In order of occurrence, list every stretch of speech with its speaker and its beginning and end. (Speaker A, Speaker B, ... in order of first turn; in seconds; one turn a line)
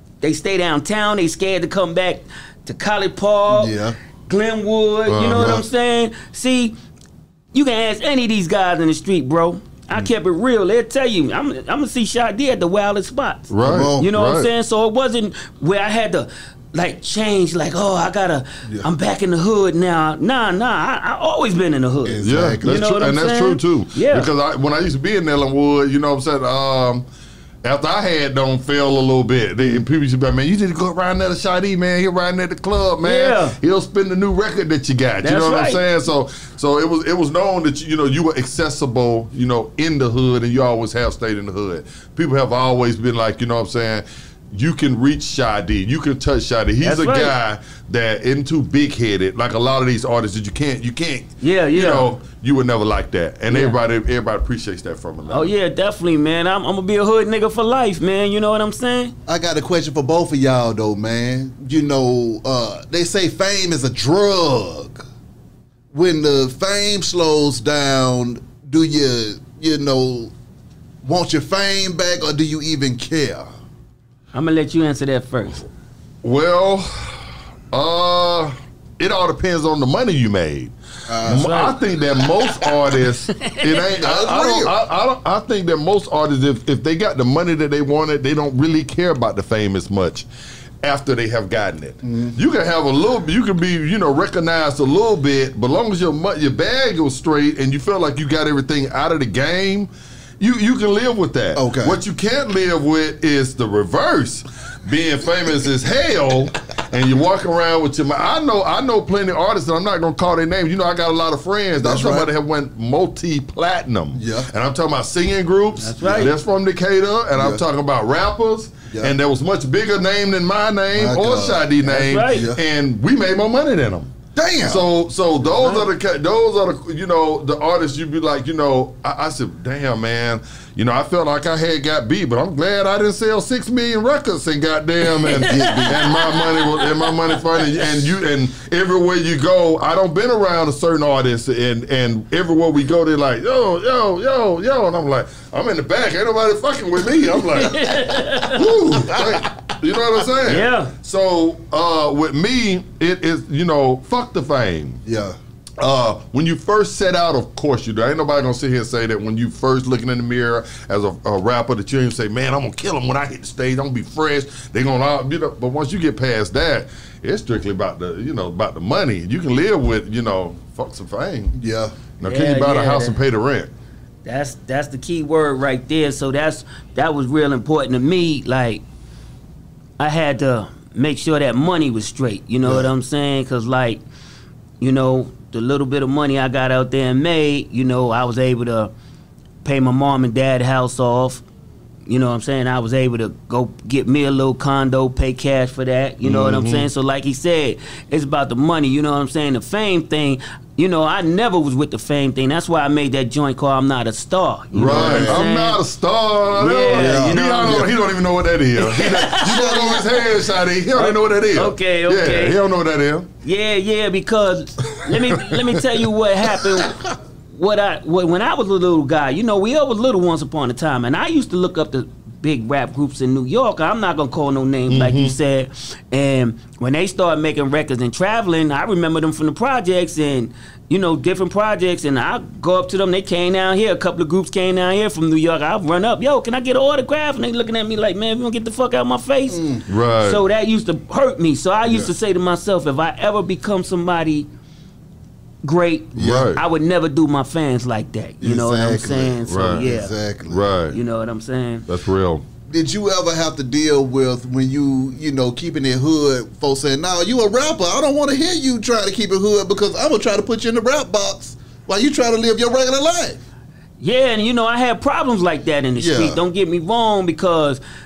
Speaker A: 0.2-6.7
Speaker B: 3.5-3.9
Speaker C: 5.1-5.6
Speaker A: 7.5-24.3
Speaker C: 13.5-14.5
Speaker B: 13.6-14.1
Speaker B: 22.0-22.8
Speaker C: 22.2-27.0
Speaker C: 27.6-55.5
Speaker A: 33.0-33.5
Speaker A: 35.2-35.8
Speaker A: 46.8-47.3
Speaker A: 51.4-52.1
Speaker A: 53.5-53.8
Speaker A: 55.3-59.1
Speaker B: 59.2-65.0
Speaker B: 65.9-70.3
Speaker B: 71.0-73.5
Speaker A: 74.3-75.6
Speaker C: 76.2-90.2
Speaker B: 81.1-81.5
Speaker A: 81.3-83.8
Speaker B: 83.9-84.7
Speaker C: 90.8-124.1
Speaker B: 92.0-92.3
Speaker B: 101.5-102.0
Speaker B: 111.8-112.3
Speaker B: 114.1-114.5
Speaker A: 115.8-116.3
Speaker B: 116.0-116.3
Speaker B: 117.3-117.6
Speaker B: 120.9-122.6
Speaker A: 121.8-122.5
Speaker B: 124.3-124.8
Speaker C: 124.6-155.0
Speaker A: 125.5-125.9
Speaker A: 135.3-137.1
Speaker B: 135.4-136.1
Speaker A: 147.5-148.7
Speaker A: 150.4-150.9
Speaker B: 155.0-155.3
Speaker C: 155.8-171.5
Speaker B: 171.5-171.9
Speaker C: 172.2-173.7
Speaker A: 172.2-173.2
Speaker A: 174.2-178.8
Speaker A: 180.0-184.0
Speaker B: 182.6-182.9
Speaker A: 184.8-188.9
Speaker A: 189.6-191.4
Speaker A: 192.1-205.8
Speaker C: 196.2-196.9
Speaker C: 204.7-213.3
Speaker B: 204.8-205.5
Speaker A: 206.5-207.8
Speaker B: 206.9-207.9
Speaker A: 208.8-210.2
Speaker A: 210.9-212.6
Speaker A: 213.4-244.5
Speaker C: 215.2-215.8
Speaker C: 224.9-225.3
Speaker B: 239.5-239.8
Speaker C: 239.9-240.4
Speaker B: 241.8-242.1
Speaker A: 245.6-250.2
Speaker B: 246.1-246.5
Speaker C: 246.2-246.6
Speaker B: 248.4-250.7
Speaker C: 249.4-249.8
Speaker C: 250.5-251.0
Speaker A: 250.9-251.9
Speaker C: 251.9-252.4
Speaker B: 252.7-263.4
Speaker A: 264.0-267.8
Speaker B: 266.0-266.4